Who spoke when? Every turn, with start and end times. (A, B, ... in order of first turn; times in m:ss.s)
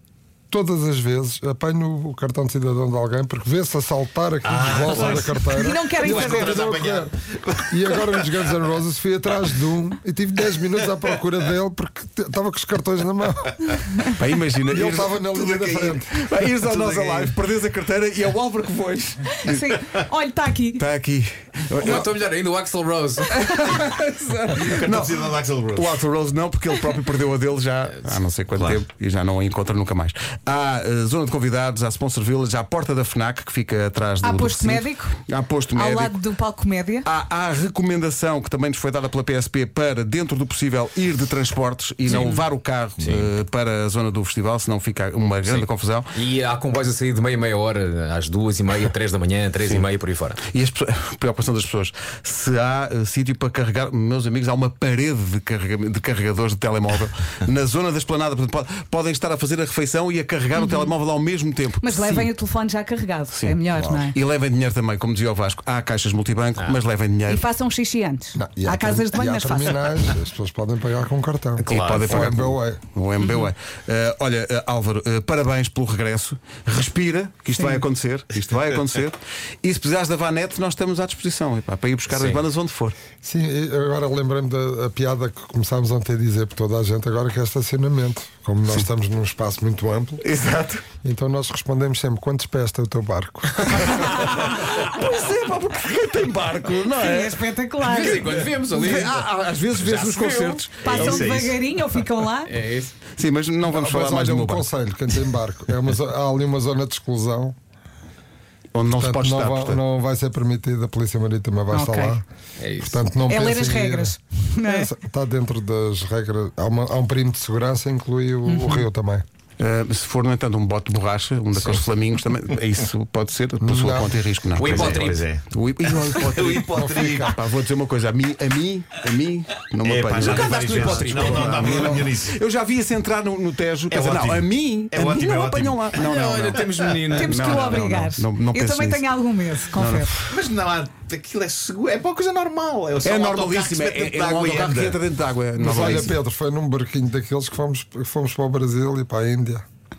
0:00.5-0:07.1 A
0:04.4-0:08.5 B
0:05.4-0:06.6 C
0:07.7-0:13.9 A
0:14.1-0:19.7 D
0:14.7-0:16.3 A
0:16.6-0:17.4 B
0:19.4-0:20.8 C
0:20.8-0:22.2 D
0:21.8-0:23.3 E
0:23.3-0:36.2 D
0:24.6-0:26.0 B
0:28.5-0:28.8 B
0:34.2-0:35.2 C
0:35.7-0:37.1 C
0:37.0-0:46.2 D
0:42.1-0:42.5 C
0:43.0-0:43.3 B
0:45.4-0:50.4 E
0:50.5-1:02.3 D
1:00.6-1:00.9 C
1:01.8-1:04.2 C
1:03.3-1:03.6 D
1:03.8-1:04.0 A
1:04.1-1:07.5 D
1:07.3-1:09.9 C
1:08.4-1:12.8 A
1:11.7-1:12.3 B
1:11.7-1:23.0 D
1:13.2-1:13.5 C
1:22.1-1:22.4 E
1:23.2-1:30.2 A
1:30.2-1:30.8 D
1:31.0-1:34.1 A
1:33.7-1:37.4 D
1:36.9-1:38.2 C
1:37.8-1:40.6 E
1:38.0-1:41.3 D
1:40.8-1:42.5 C
1:40.8-1:41.7 B
1:42.5-1:42.9 E
1:43.2-1:44.7 D
1:43.6-1:47.6 A
1:48.7-1:49.8 D
1:49.0-1:52.2 A
1:51.7-1:52.2 C
1:52.6-1:53.1 E
1:52.8-1:59.2 A
1:53.3-1:54.9 C
1:58.5-1:58.8 C
1:59.6-2:19.1 D
2:01.6-2:01.8 E
2:03.6-2:04.2 A
2:04.5-2:05.3 E
2:04.6-2:05.4 B
2:06.1-2:07.4 B
2:06.6-2:07.4 A
2:09.8-2:12.4 B
2:10.2-2:11.8 E
2:13.9-2:17.1 B
2:15.9-2:18.0 E
2:17.1-2:20.1 C
2:19.7-2:20.1 D
2:20.2-2:25.0 B
2:23.0-2:26.2 D
2:25.6-2:29.7 A